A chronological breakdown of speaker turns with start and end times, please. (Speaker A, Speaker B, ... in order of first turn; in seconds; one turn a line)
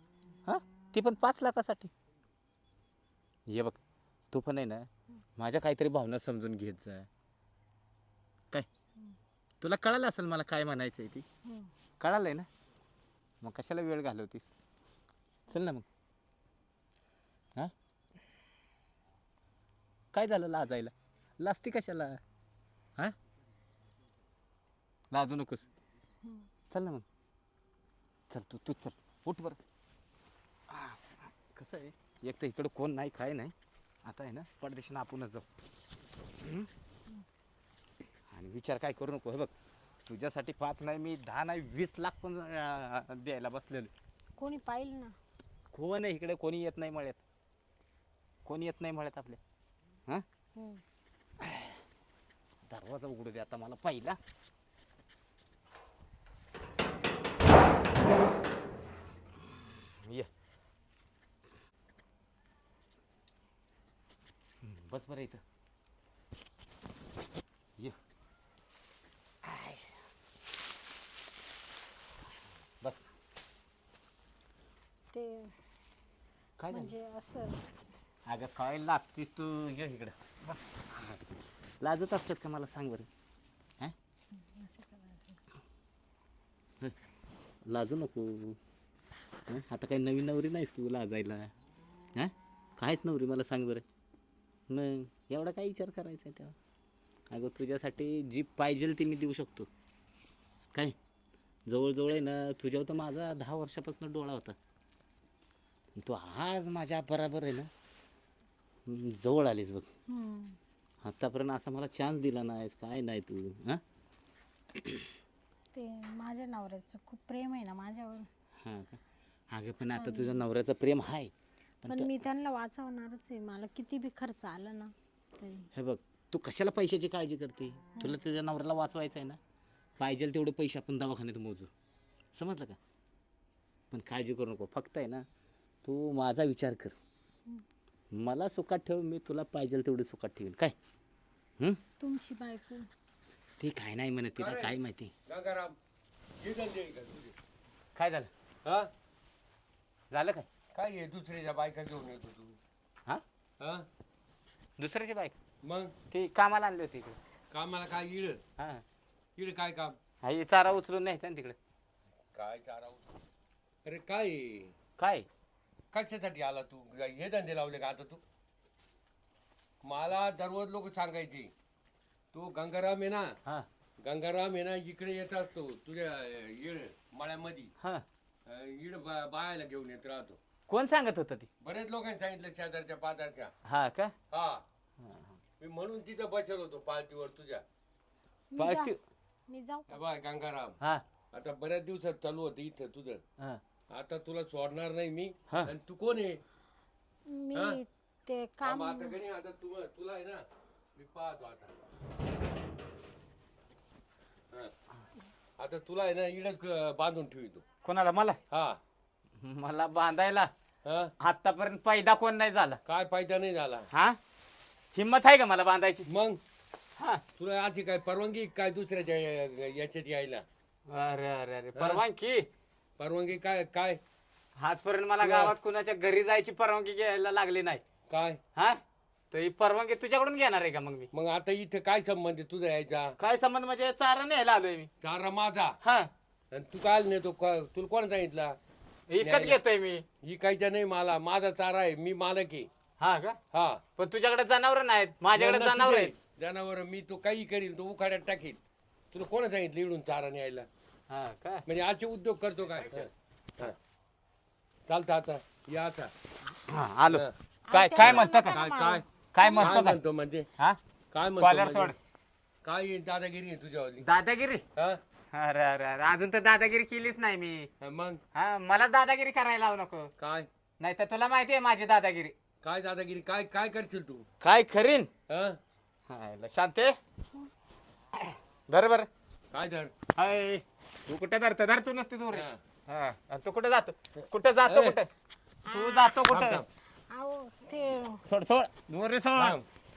Speaker A: 0.5-1.9
Speaker A: 3.5-3.8
Speaker A: 4.3-7.1
Speaker A: 9.6-11.3
Speaker B: 11.5-11.7
Speaker A: 12.0-12.5
Speaker A: 13.4-14.5
Speaker A: 15.5-15.9
Speaker A: 20.1-22.2
Speaker A: 25.1-25.7
Speaker A: 26.7-27.1
Speaker A: 28.3-29.6
Speaker A: 30.7-35.5
Speaker A: 36.4-36.7
Speaker A: 38.3-39.5
Speaker A: 40.0-43.9
Speaker B: 44.4-45.1
Speaker A: 45.7-47.2
Speaker A: 48.5-49.4
Speaker B: 50.6-50.8
Speaker A: 51.4-51.8
Speaker A: 52.7-54.2
Speaker A: 60.0-60.3
Speaker A: 64.6-65.4
Speaker A: 69.5-69.9
Speaker B: 75.1-75.6
Speaker A: 76.6-76.9
Speaker B: 76.7-77.6
Speaker A: 78.3-81.1
Speaker A: 81.8-83.1
Speaker B: 84.4-85.4
Speaker A: 87.7-88.6
Speaker A: 89.5-91.5
Speaker A: 92.2-93.8
Speaker A: 94.7-96.6
Speaker A: 97.3-99.7
Speaker A: 101.7-104.6
Speaker A: 106.0-107.7
Speaker A: 108.9-109.9
Speaker B: 110.1-110.6
Speaker A: 111.0-113.8
Speaker B: 115.7-118.3
Speaker A: 118.6-121.3
Speaker B: 120.0-120.4
Speaker A: 121.8-122.1
Speaker B: 121.9-125.7
Speaker A: 125.7-129.4
Speaker A: 130.0-131.7
Speaker A: 132.3-132.8
Speaker A: 133.9-135.3
Speaker A: 135.8-137.0
Speaker A: 138.1-140.8
Speaker B: 142.0-142.9
Speaker A: 143.6-145.1
Speaker C: 144.4-145.8
Speaker C: 146.4-147.3
Speaker A: 147.9-148.3
Speaker C: 148.7-148.9
Speaker A: 150.1-150.5
Speaker C: 150.8-152.6
Speaker C: 153.6-153.9
Speaker A: 154.8-155.4
Speaker C: 155.6-155.9
Speaker A: 156.1-157.2
Speaker C: 157.5-158.4
Speaker A: 158.6-158.8
Speaker C: 159.4-160.0
Speaker A: 160.2-161.6
Speaker C: 162.3-163.1
Speaker C: 163.8-164.8
Speaker A: 165.0-165.3
Speaker C: 165.9-168.2
Speaker C: 169.8-171.5
Speaker C: 172.3-173.4
Speaker C: 174.0-177.7
Speaker C: 178.5-180.4
Speaker A: 180.7-181.5
Speaker C: 181.6-183.5
Speaker A: 183.7-184.2
Speaker C: 184.3-184.6
Speaker A: 185.0-185.3
Speaker C: 185.6-187.6
Speaker B: 188.5-188.9
Speaker A: 188.6-189.0
Speaker B: 189.5-190.0
Speaker C: 189.9-190.8
Speaker C: 191.3-193.2
Speaker C: 193.9-196.4
Speaker A: 195.5-195.7
Speaker B: 197.3-199.2
Speaker C: 197.5-197.8
Speaker C: 198.7-200.4
Speaker C: 201.0-201.8
Speaker C: 205.6-207.6
Speaker A: 207.8-208.4
Speaker C: 208.5-208.8
Speaker A: 209.4-210.5
Speaker C: 210.8-211.1
Speaker A: 211.2-212.8
Speaker C: 212.8-213.9
Speaker A: 213.9-214.2
Speaker A: 214.9-216.1
Speaker C: 216.1-216.4
Speaker C: 217.4-220.4
Speaker A: 220.9-222.5
Speaker C: 221.8-222.0
Speaker C: 223.0-224.0
Speaker A: 224.6-227.8
Speaker C: 225.2-225.6
Speaker C: 228.1-228.4
Speaker A: 228.6-228.8
Speaker A: 229.3-231.1
Speaker C: 231.1-233.1
Speaker A: 233.2-234.9
Speaker C: 235.0-235.8
Speaker A: 235.8-236.1
Speaker C: 236.5-238.6
Speaker A: 239.1-240.1
Speaker C: 239.2-239.6
Speaker C: 240.2-242.7
Speaker A: 243.0-243.4
Speaker C: 243.5-243.8
Speaker A: 244.0-246.1
Speaker C: 245.3-248.6
Speaker C: 249.1-250.7
Speaker A: 251.1-251.7
Speaker C: 251.7-253.8
Speaker C: 254.9-256.1
Speaker A: 256.6-258.6
Speaker C: 257.1-257.4
Speaker B: 257.7-259.0
Speaker C: 258.0-260.5
Speaker A: 259.3-260.0
Speaker B: 259.6-259.8
Speaker C: 261.1-261.9
Speaker A: 261.4-261.9
Speaker C: 262.6-264.1
Speaker A: 264.0-264.6
Speaker C: 264.8-265.0
Speaker A: 265.3-267.7
Speaker C: 267.8-268.2
Speaker A: 268.3-270.1
Speaker C: 270.2-270.5
Speaker A: 270.8-272.4
Speaker C: 272.6-274.3
Speaker A: 274.4-275.1
Speaker C: 275.3-275.6
Speaker A: 276.1-277.0
Speaker A: 278.7-279.1
Speaker C: 279.5-279.9
Speaker A: 280.1-285.1
Speaker C: 282.3-282.6
Speaker C: 284.6-285.0
Speaker A: 285.6-286.6
Speaker B: 285.7-286.2
Speaker C: 286.3-286.7
Speaker B: 287.1-288.2
Speaker A: 288.3-289.6
Speaker C: 289.4-289.7